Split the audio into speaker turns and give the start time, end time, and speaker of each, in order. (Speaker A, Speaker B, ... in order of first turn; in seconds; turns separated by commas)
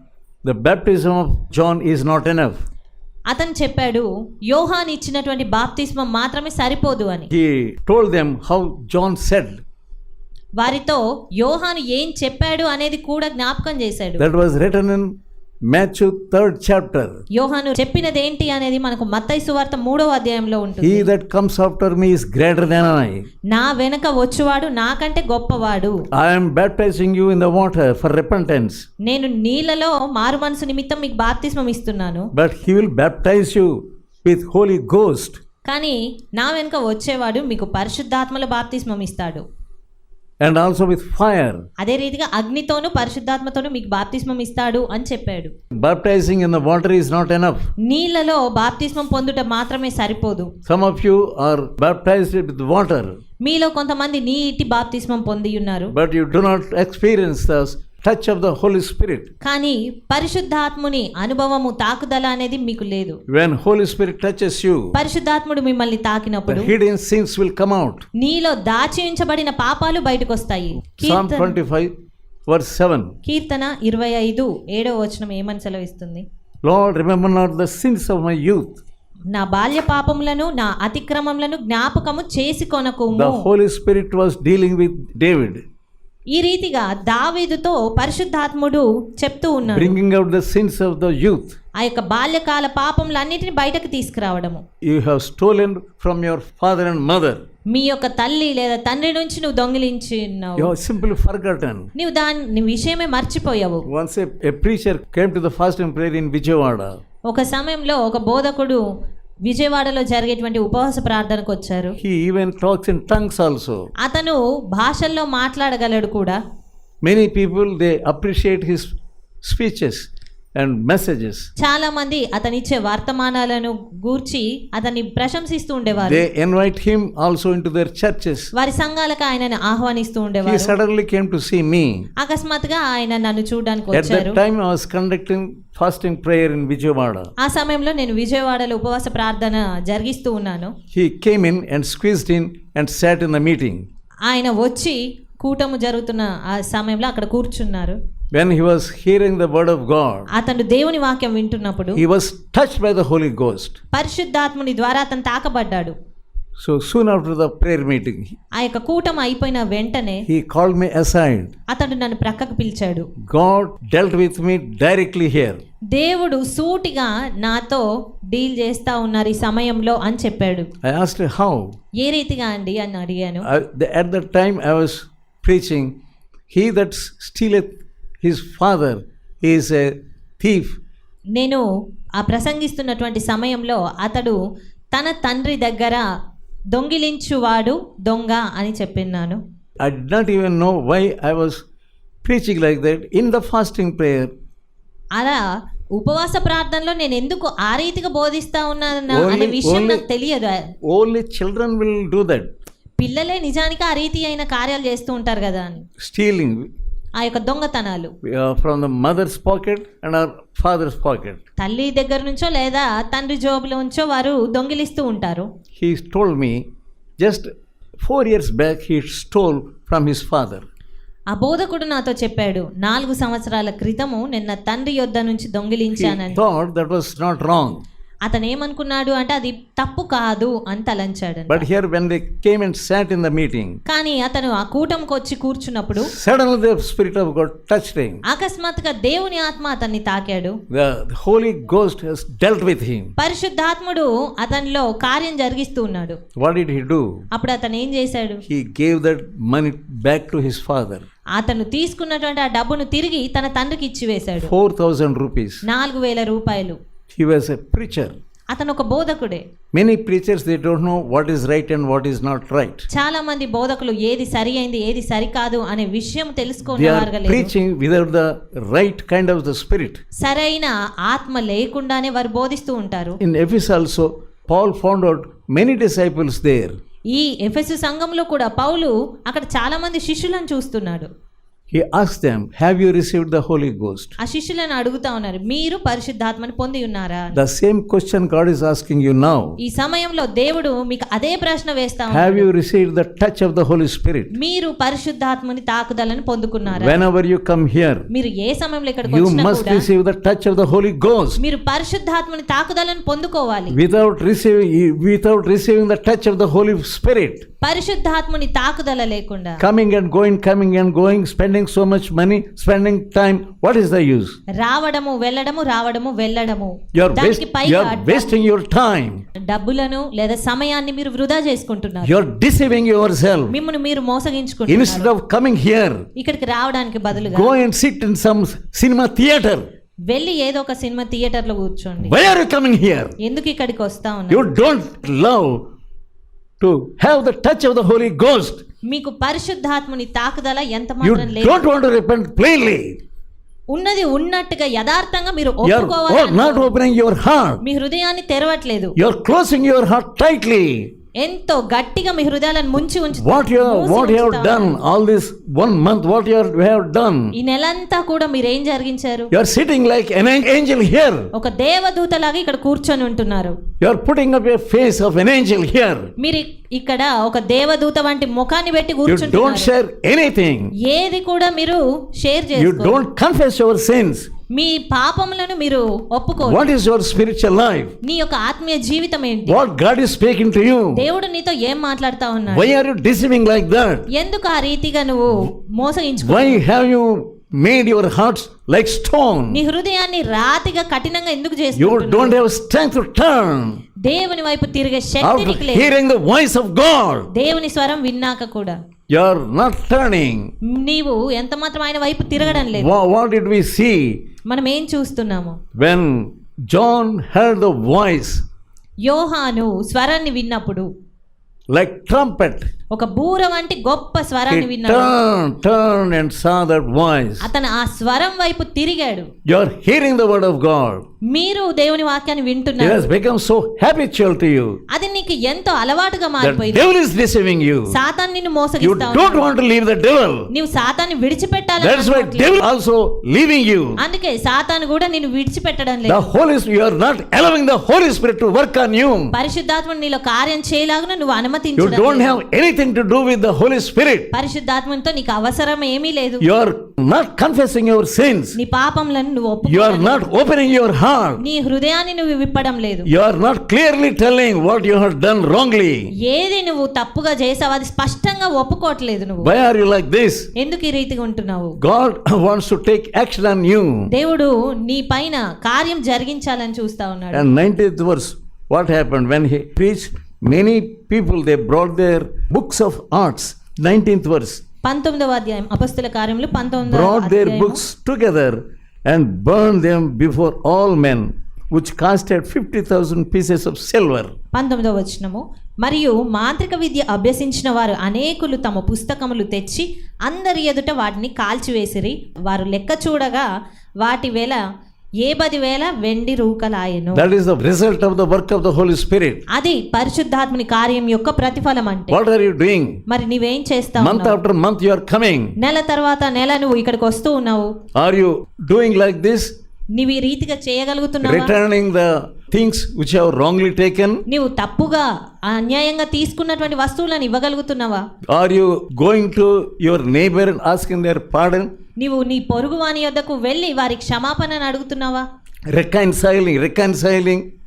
Speaker A: 0.4-2.6, Speaker B: 3.3-7.3, Speaker A: 7.3-9.6, Speaker B: 10.6-14.2, Speaker A: 14.2-15.1, Speaker A: 15.7-17.2, Speaker B: 17.3-21.1, Speaker A: 20.8-23.2, Speaker B: 23.5-25.9, Speaker A: 26.1-28.8, Speaker B: 29.0-32.3, Speaker A: 32.3-35.4, Speaker B: 35.6-39.4, Speaker A: 40.4-41.6, Speaker B: 41.8-45.5, Speaker A: 45.8-47.7, Speaker B: 47.9-50.5, Speaker A: 50.6-53.1, Speaker B: 53.4-55.9, Speaker A: 55.9-59.3, Speaker B: 59.4-63.2, Speaker A: 63.3-64.9, Speaker B: 64.9-66.7, Speaker A: 66.5-68.0, Speaker B: 68.2-71.6, Speaker A: 71.0-71.9, Speaker A: 72.5-73.1, Speaker B: 73.2-76.2, Speaker A: 76.6-78.8, Speaker B: 79.3-83.4, Speaker A: 83.1-85.6, Speaker B: 86.3-89.9, Speaker A: 89.7-91.5, Speaker B: 91.8-94.6, Speaker A: 94.8-97.4, Speaker B: 97.7-100.7, Speaker A: 100.6-101.9, Speaker B: 102.0-103.8, Speaker A: 103.9-107.0, Speaker B: 107.3-108.8, Speaker B: 109.5-112.0, Speaker A: 112.0-113.9, Speaker B: 114.0-116.4, Speaker A: 117.0-121.5, Speaker B: 121.6-126.3, Speaker A: 126.0-128.5, Speaker B: 128.5-130.7, Speaker A: 130.4-132.1, Speaker B: 132.2-134.4, Speaker A: 133.9-137.3, Speaker B: 137.4-140.7, Speaker A: 140.9-143.8, Speaker B: 144.3-147.9, Speaker A: 148.3-150.3, Speaker B: 150.3-152.0, Speaker A: 151.9-153.8, Speaker B: 153.9-155.9, Speaker A: 156.6-158.3, Speaker B: 158.6-160.2, Speaker A: 160.3-161.5, Speaker B: 161.7-163.1, Speaker A: 163.2-165.6, Speaker B: 165.9-170.7, Speaker A: 170.8-171.7, Speaker B: 172.0-173.5, Speaker A: 173.4-175.9, Speaker A: 176.5-180.8, Speaker B: 181.3-181.6, Speaker B: 182.2-184.4, Speaker B: 184.9-186.0, Speaker B: 186.7-189.4, Speaker A: 189.8-191.6, Speaker A: 192.2-194.3, Speaker B: 195.2-195.4, Speaker B: 195.9-200.7, Speaker A: 199.1-200.0, Speaker A: 200.8-202.5, Speaker B: 203.0-205.8, Speaker A: 206.0-206.7, Speaker B: 207.2-208.1, Speaker A: 208.2-211.4, Speaker B: 211.6-215.5, Speaker A: 215.8-216.6, Speaker A: 217.2-220.7, Speaker B: 221.3-226.4, Speaker A: 225.9-227.8, Speaker B: 228.2-231.7, Speaker A: 231.5-233.8, Speaker B: 233.8-236.1, Speaker A: 236.0-238.2, Speaker B: 238.3-240.6, Speaker A: 240.7-243.1, Speaker B: 243.2-246.2, Speaker A: 246.4-247.1, Speaker B: 247.3-248.4, Speaker A: 248.4-251.1, Speaker B: 251.3-254.5, Speaker A: 254.4-255.6, Speaker B: 255.6-256.8, Speaker A: 257.1-258.2, Speaker B: 258.5-259.4, Speaker A: 259.7-262.9, Speaker B: 262.9-267.5, Speaker A: 266.7-270.0, Speaker B: 270.2-273.2, Speaker A: 273.2-276.8, Speaker B: 277.1-281.1, Speaker A: 281.7-284.1, Speaker B: 284.2-287.4, Speaker A: 287.3-289.6, Speaker B: 289.6-292.5, Speaker A: 292.1-294.3, Speaker B: 294.3-297.0, Speaker A: 296.7-298.1, Speaker B: 298.1-299.9, Speaker A: 299.1-301.4, Speaker B: 301.4-303.8, Speaker A: 303.7-307.4, Speaker B: 307.6-309.6, Speaker A: 309.6-314.4, Speaker B: 314.6-318.3, Speaker A: 316.9-319.2, Speaker B: 319.4-322.1, Speaker A: 322.0-323.6, Speaker B: 323.5-325.1, Speaker A: 324.7-326.1, Speaker B: 326.1-327.5, Speaker A: 327.2-329.7, Speaker B: 330.1-332.2, Speaker A: 332.0-333.1, Speaker B: 333.2-334.5, Speaker A: 334.3-335.6, Speaker A: 336.6-338.6, Speaker B: 338.9-341.6, Speaker A: 341.0-343.0, Speaker B: 343.7-346.8, Speaker A: 345.6-347.6, Speaker B: 347.6-348.9, Speaker A: 349.0-350.9, Speaker B: 351.2-354.8, Speaker A: 353.2-357.3, Speaker B: 357.3-359.3, Speaker A: 359.3-361.3, Speaker B: 361.3-363.5, Speaker A: 363.8-366.1, Speaker B: 366.2-369.7, Speaker A: 369.1-370.7, Speaker B: 370.8-373.0, Speaker A: 372.6-374.3, Speaker B: 374.5-376.7, Speaker A: 376.4-377.9, Speaker B: 378.0-379.6, Speaker A: 379.5-381.1, Speaker B: 380.9-382.7, Speaker A: 382.5-384.1, Speaker B: 384.1-386.6, Speaker A: 386.2-389.6, Speaker B: 389.5-392.4, Speaker A: 391.8-393.8, Speaker B: 394.0-395.9, Speaker A: 395.2-397.3, Speaker B: 397.3-398.8, Speaker A: 399.1-400.5, Speaker B: 400.7-402.9, Speaker A: 402.6-404.2, Speaker B: 404.5-405.6, Speaker A: 405.8-408.4, Speaker B: 409.0-410.9, Speaker A: 411.7-412.6, Speaker B: 412.9-415.1, Speaker A: 414.5-417.5, Speaker B: 417.4-419.3, Speaker A: 419.5-421.0, Speaker B: 421.3-423.0, Speaker A: 422.8-424.8, Speaker B: 424.9-426.9, Speaker A: 426.4-427.9, Speaker B: 427.9-429.5, Speaker A: 428.8-430.5, Speaker B: 430.5-432.6, Speaker A: 431.8-434.0, Speaker B: 434.0-436.3, Speaker A: 436.0-439.3, Speaker B: 439.3-442.4, Speaker A: 441.8-444.3, Speaker B: 444.3-446.4, Speaker A: 446.4-448.6, Speaker B: 448.6-450.2, Speaker A: 449.6-451.4, Speaker B: 451.4-453.1, Speaker A: 453.1-456.1, Speaker B: 456.2-459.5, Speaker A: 459.4-460.5, Speaker B: 460.6-461.8, Speaker A: 461.8-464.0, Speaker B: 464.1-467.5, Speaker A: 467.3-474.6, Speaker B: 474.8-477.8, Speaker A: 476.8-484.3, Speaker B: 484.5-493.5, Speaker B: 494.0-494.6, Speaker B: 495.2-497.2, Speaker A: 497.1-499.4, Speaker B: 499.5-502.2, Speaker A: 502.1-503.0, Speaker B: 503.1-504.4, Speaker A: 504.0-505.5, Speaker B: 505.6-507.7, Speaker A: 507.9-509.5, Speaker B: 509.9-511.5, Speaker A: 511.2-514.2, Speaker B: 514.3-518.0, Speaker A: 518.3-521.7, Speaker B: 522.0-525.2, Speaker A: 525.7-527.4